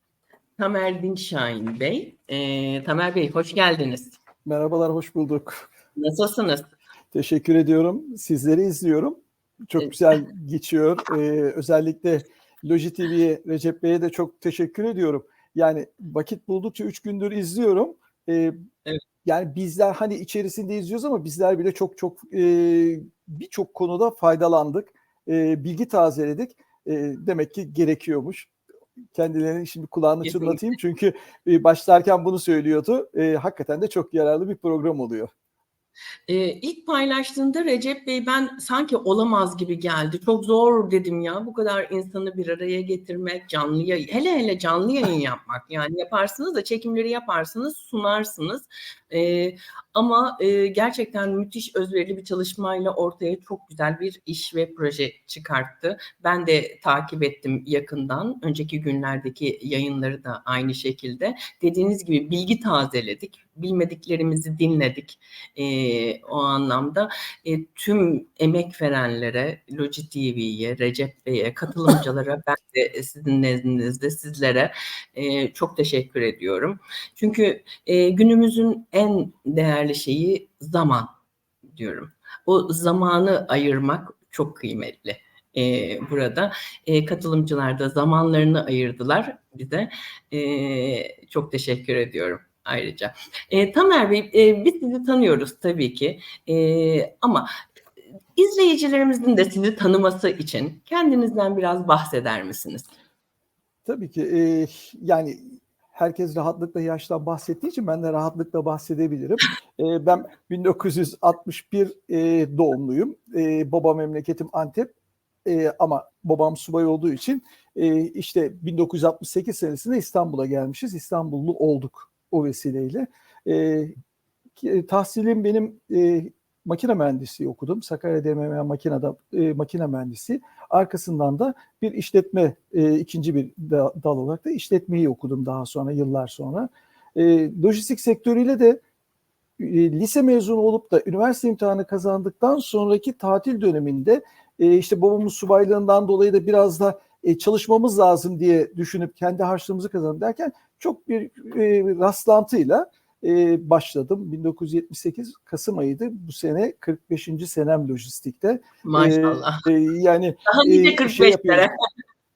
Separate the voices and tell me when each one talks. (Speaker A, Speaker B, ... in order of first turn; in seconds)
Speaker A: 0.6-4.1, 6.0-6.7, 30.2-30.6, 36.3-81.1, 81.7-97.5, 98.3-102.9, 158.8-159.7, 160.5-161.7
Speaker B: 4.4-5.7, 7.1-18.5, 19.2-28.5, 29.1-35.3, 103.8-105.4, 105.9-114.9, 115.4-123.9, 124.6-138.8, 139.6-161.7